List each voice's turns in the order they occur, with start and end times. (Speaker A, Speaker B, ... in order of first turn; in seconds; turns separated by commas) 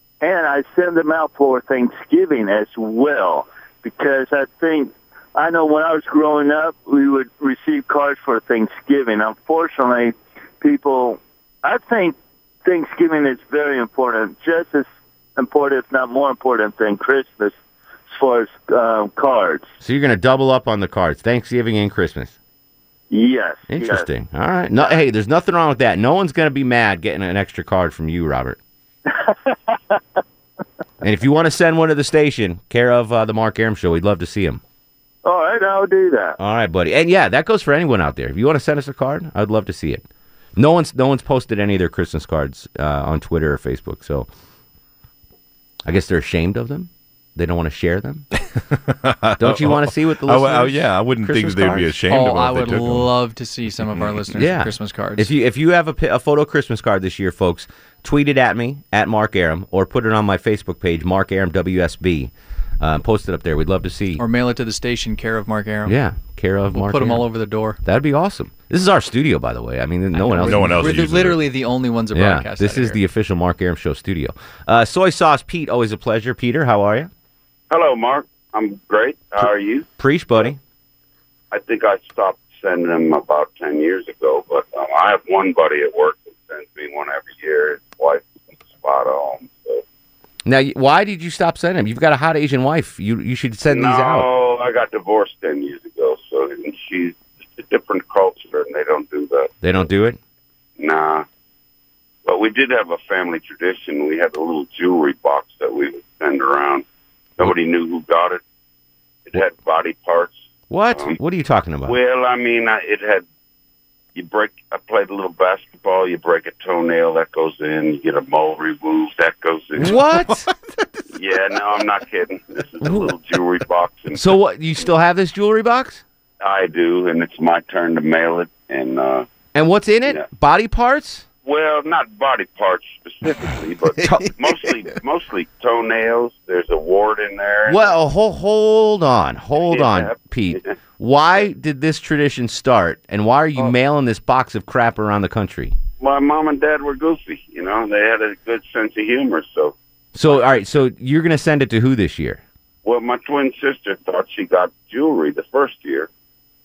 Speaker A: 0.2-14.8, Speaker A: 15.4-17.5, Speaker A: 18.1-19.7, Speaker B: 19.8-22.3, Speaker A: 23.1-24.0, Speaker B: 23.7-28.6, Speaker B: 31.0-34.6, Speaker A: 35.2-36.4, Speaker B: 36.4-40.0, Speaker B: 40.5-44.3, Speaker B: 45.8-48.2, Speaker C: 48.6-53.1, Speaker B: 49.4-52.0, Speaker D: 52.1-55.3, Speaker B: 54.3-64.2, Speaker D: 64.2-66.0, Speaker B: 65.8-67.3, Speaker D: 66.7-67.8, Speaker B: 67.8-71.0, Speaker D: 70.1-73.0, Speaker C: 70.4-71.4, Speaker B: 72.1-77.1, Speaker E: 77.7-79.9, Speaker B: 80.0-80.6, Speaker E: 81.5-89.8, Speaker B: 90.4-94.3, Speaker E: 93.7-99.5, Speaker B: 99.6-100.2, Speaker E: 100.8-101.2, Speaker E: 102.2-106.8, Speaker E: 107.4-108.4, Speaker E: 109.3-110.4, Speaker B: 110.7-112.0, Speaker E: 111.8-113.2, Speaker E: 114.1-120.0, Speaker B: 119.8-120.5, Speaker E: 121.1-124.3, Speaker B: 122.8-123.1, Speaker B: 124.1-126.0, Speaker E: 126.4-129.3, Speaker B: 129.5-131.2, Speaker E: 131.4-137.9, Speaker B: 137.7-145.8, Speaker E: 139.7-140.7, Speaker E: 146.0-150.4, Speaker B: 150.1-152.4, Speaker E: 152.8-156.1